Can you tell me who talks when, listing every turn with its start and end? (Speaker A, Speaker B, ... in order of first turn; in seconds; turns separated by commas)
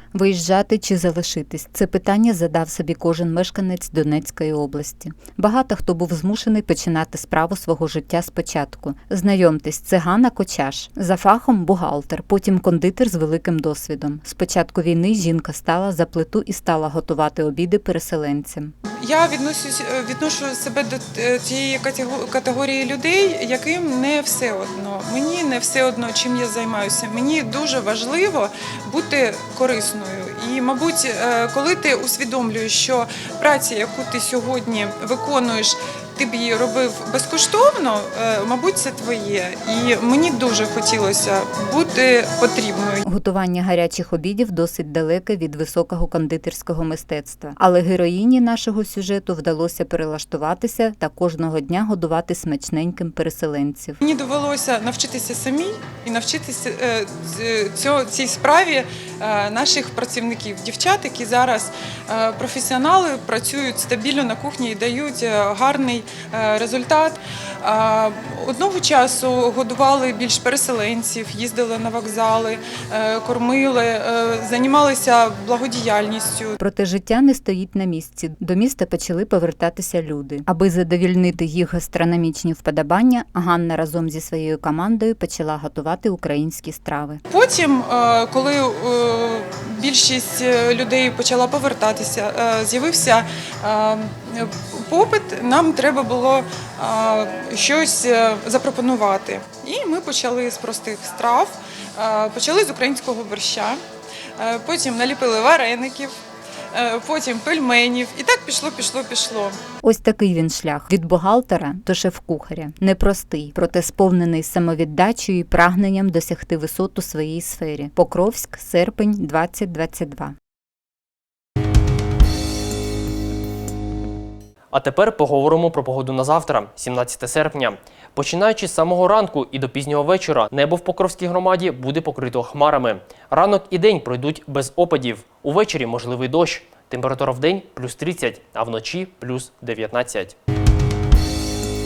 Speaker A: 0.1-18.7, Speaker B: 19.0-43.0, Speaker A: 43.0-54.0, Speaker B: 54.0-76.6, Speaker A: 76.6-87.2, Speaker B: 87.3-103.8, Speaker B: 104.4-106.1, Speaker B: 106.7-109.6, Speaker A: 109.8-120.3, Speaker C: 124.7-140.3